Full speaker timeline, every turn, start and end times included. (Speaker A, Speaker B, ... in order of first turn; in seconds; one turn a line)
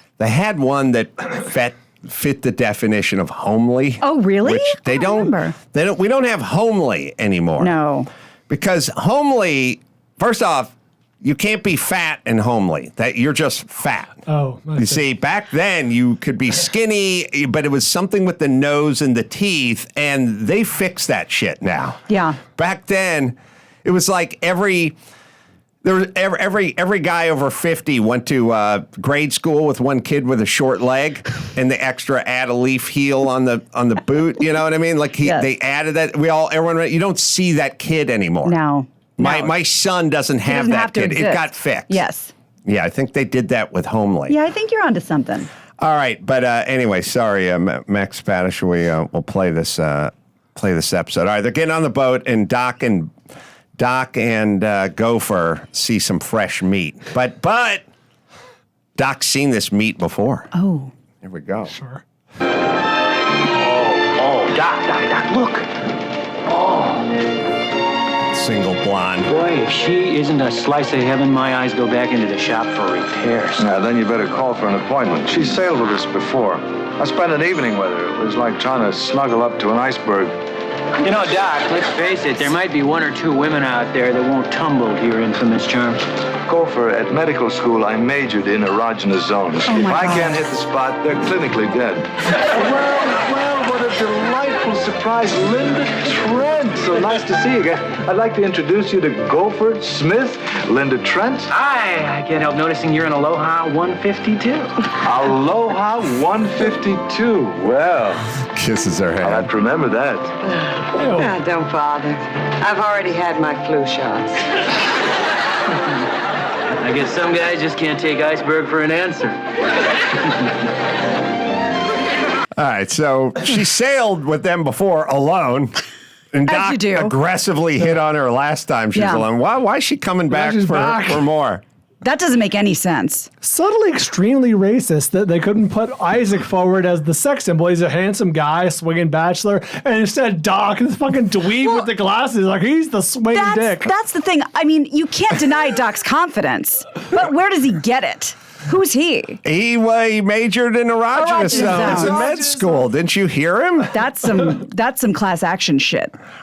Speaker A: 0.2-7.7
Speaker B: 4.0-5.6
Speaker B: 7.6-8.1
Speaker A: 8.5-14.2
Speaker C: 14.3-15.0
Speaker A: 14.8-24.9
Speaker B: 22.1-22.4
Speaker A: 25.8-38.6
Speaker B: 35.2-35.5
Speaker B: 38.4-39.5
Speaker A: 39.2-42.0
Speaker B: 40.4-42.3
Speaker A: 42.7-44.4
Speaker B: 44.3-45.5
Speaker A: 45.8-53.1
Speaker A: 53.8-57.9
Speaker A: 59.0-60.5
Speaker B: 60.5-60.9
Speaker A: 61.2-61.7
Speaker C: 61.7-62.0
Speaker D: 63.6-65.7
Speaker D: 66.5-67.0
Speaker A: 68.3-69.3
Speaker D: 69.3-73.7
Speaker E: 73.6-80.3
Speaker D: 81.0-86.0
Speaker E: 86.5-101.5
Speaker B: 89.7-90.4
Speaker D: 101.5-104.9
Speaker E: 105.0-108.2
Speaker A: 108.5-109.5
Speaker E: 109.2-110.4
Speaker F: 110.5-114.4
Speaker D: 116.8-119.4
Speaker A: 122.6-125.8
Speaker A: 126.3-131.6
Speaker B: 126.5-127.2
Speaker B: 128.9-129.2
Speaker C: 130.3-131.2
Speaker B: 132.0-133.3
Speaker C: 133.4-143.7
Speaker B: 141.5-141.9
Speaker B: 143.3-149.4
Speaker A: 149.4-154.0
Speaker B: 151.1-152.3
Speaker B: 153.9-156.1